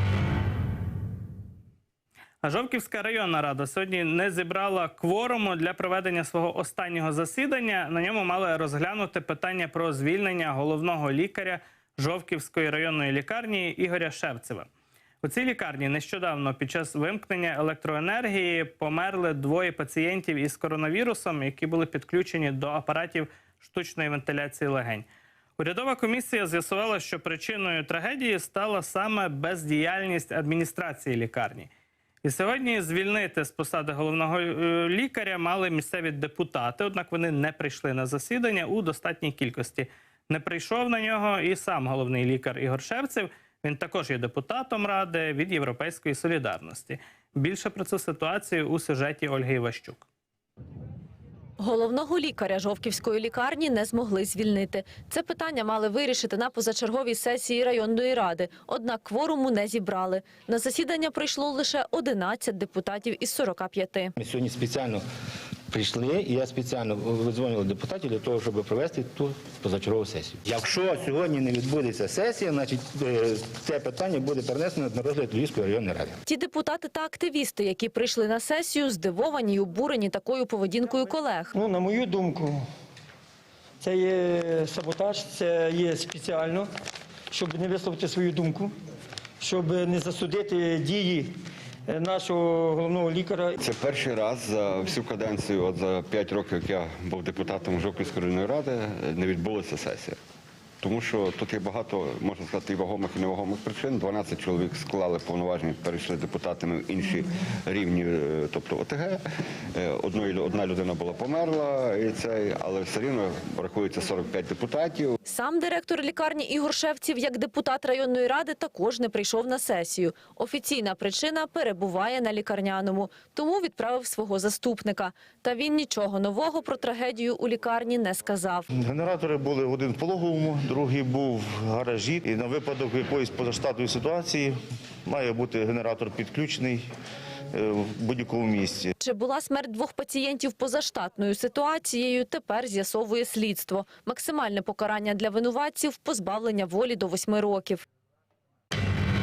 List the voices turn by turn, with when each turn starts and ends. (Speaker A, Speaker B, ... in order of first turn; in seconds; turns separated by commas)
Speaker A: 2.4-14.7, Speaker A: 15.2-25.1, Speaker A: 25.6-31.7, Speaker A: 32.2-50.0, Speaker B: 51.6-64.1, Speaker C: 64.2-65.0, Speaker C: 65.7-76.2, Speaker B: 76.4-81.5, Speaker D: 81.5-82.6, Speaker D: 83.8-86.7, Speaker D: 87.3-88.7, Speaker D: 89.4-91.3, Speaker D: 91.9-93.6, Speaker E: 93.6-100.2, Speaker E: 100.8-109.2, Speaker E: 109.8-115.1, Speaker B: 115.3-128.6, Speaker F: 128.8-136.9, Speaker F: 137.5-138.9, Speaker B: 139.0-147.8